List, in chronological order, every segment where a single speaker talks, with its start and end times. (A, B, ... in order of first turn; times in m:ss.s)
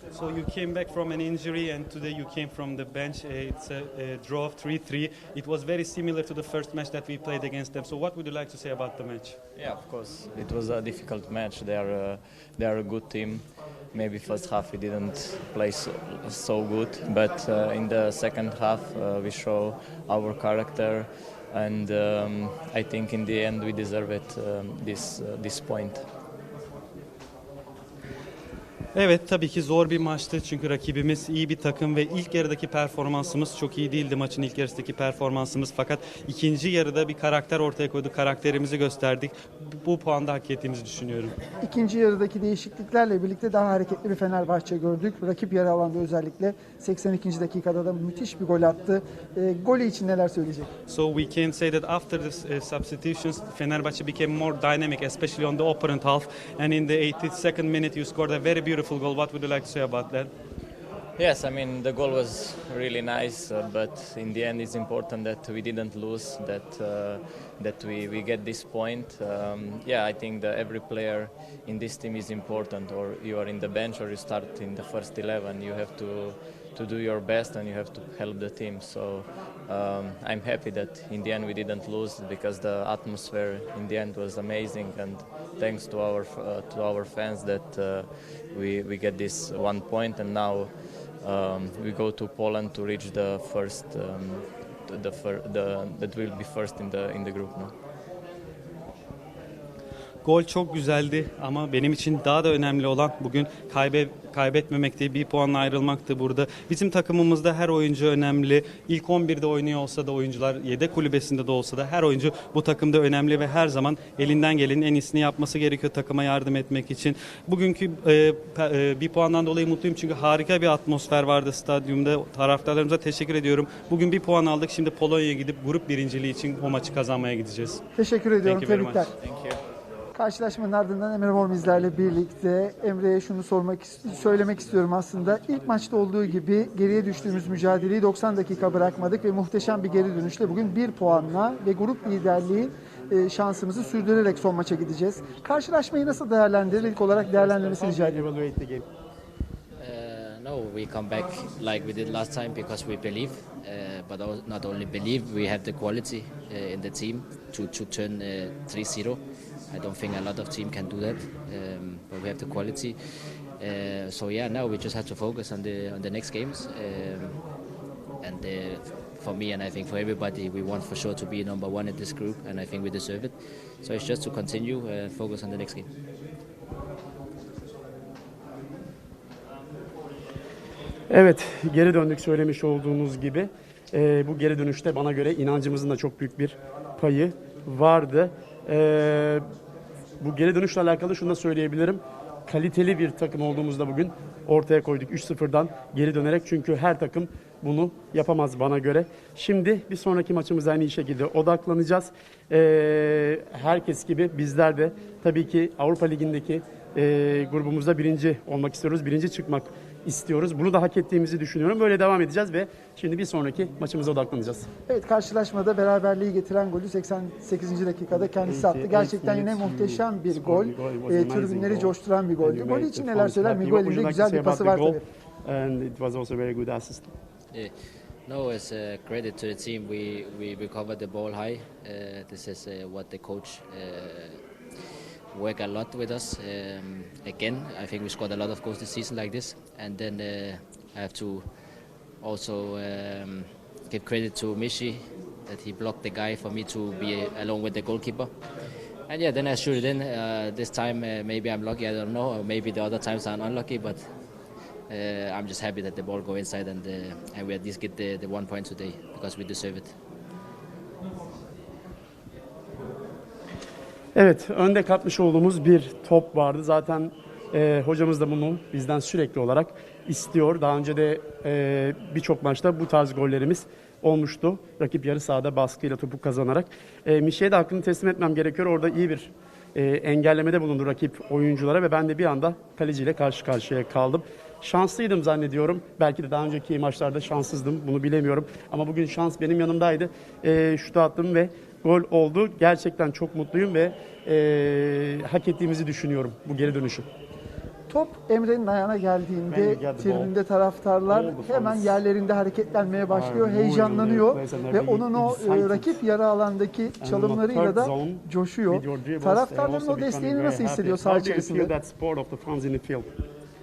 0:00.1-0:09.4 A
0:09.6-0:26.0 B
0:28.9-0:41.3 A
0:41.6-0:50.7 C
0:50.9-1:00.3 A
1:01.2-1:30.7 B
1:31.2-1:37.7 B
1:40.2-2:07.8 A
2:08.0-2:09.1 C
2:08.4-2:09.1 A
2:09.2-2:09.6 B
2:10.2-2:28.2 C
2:27.1-2:28.8 D
2:29.8-2:43.0 E
2:43.6-2:47.4 E
2:48.2-2:55.9 E
3:01.1-3:09.4 D
3:10.2-3:34.7 D
3:34.9-3:45.0 C
3:38.1-3:47.1 D
3:48.3-3:54.4 E
3:55.3-4:01.5 E
4:02.2-4:08.3 E
4:09.1-4:14.1 E
4:14.9-4:19.9 E
4:24.1-4:57.1 D
4:57.9-5:11.7 C
4:59.5-5:00.3 D
5:01.1-5:02.0 D
5:03.1-5:06.0 D
5:07.0-5:13.1 D